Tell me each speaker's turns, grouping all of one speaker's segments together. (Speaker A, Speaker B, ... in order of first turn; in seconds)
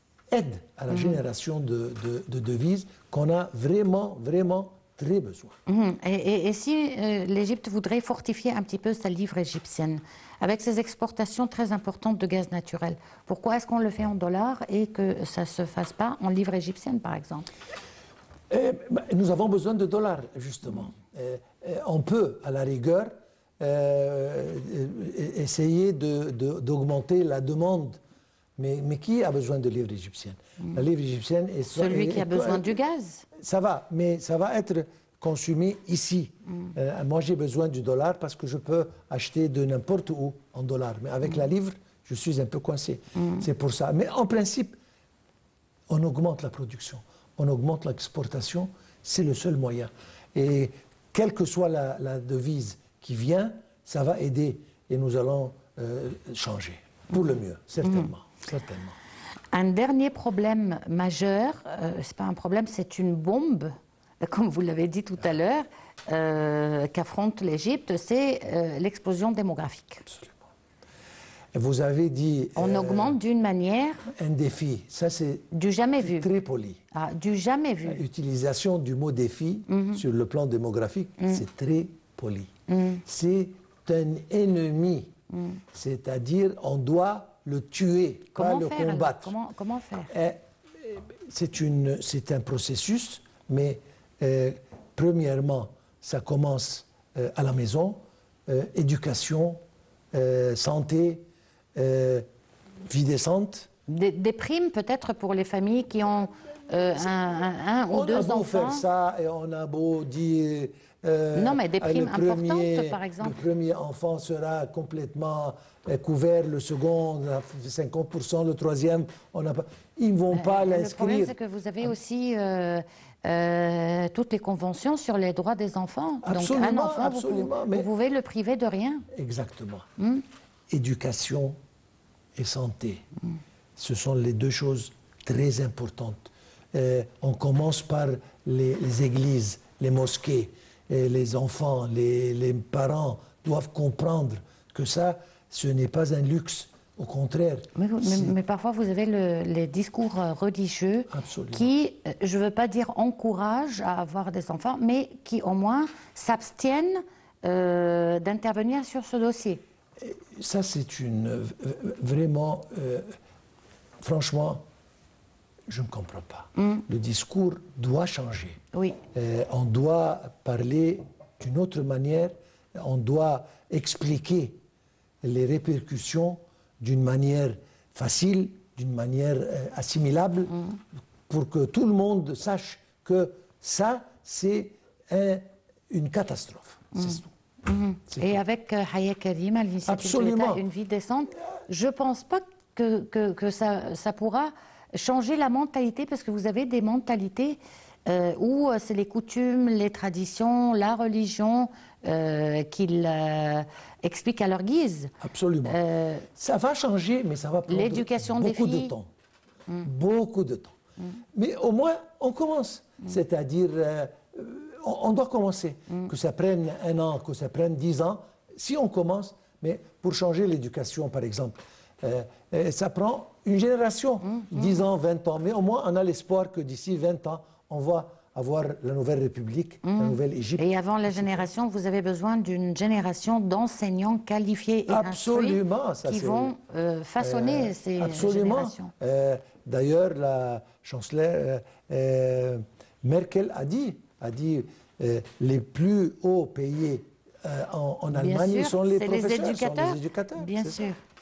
Speaker A: 0.3-5.6, 18.5-28.0, 28.6-32.7, 33.3-44.8, 45.9-59.0, 70.1-70.4, 71.5-73.2, 74.1-76.8, 77.8-82.5, 83.0-85.1, 85.7-89.3, 90.1-99.6, 100.1-102.2, 102.9-103.7, 107.9-121.3, 126.2-127.9, 129.1-129.9, 130.7-131.6, 132.3-133.0, 133.8-148.3, 151.1-151.7, 160.0-163.2, 164.0-164.6, 165.7-168.6, 169.1-174.6, 175.2-180.6, 181.3-187.3, 188.1-188.4, 189.8-190.7, 205.2-205.8, 206.3-209.1, 209.8-210.8, 211.3-231.5, 234.9-236.5, 237.2-250.9
Speaker B: 5.7-17.5, 31.7-33.2, 59.5-70.0, 72.5-74.1, 75.5-76.3, 76.9-78.0, 79.7-80.0, 82.7-83.0, 88.3-90.1, 103.9-108.8, 111.3-113.3, 120.3-129.1, 147.7-159.6, 166.6-166.8, 186.9-205.1, 205.6-206.2, 207.7-208.9, 229.8-238.9, 248.1-251.0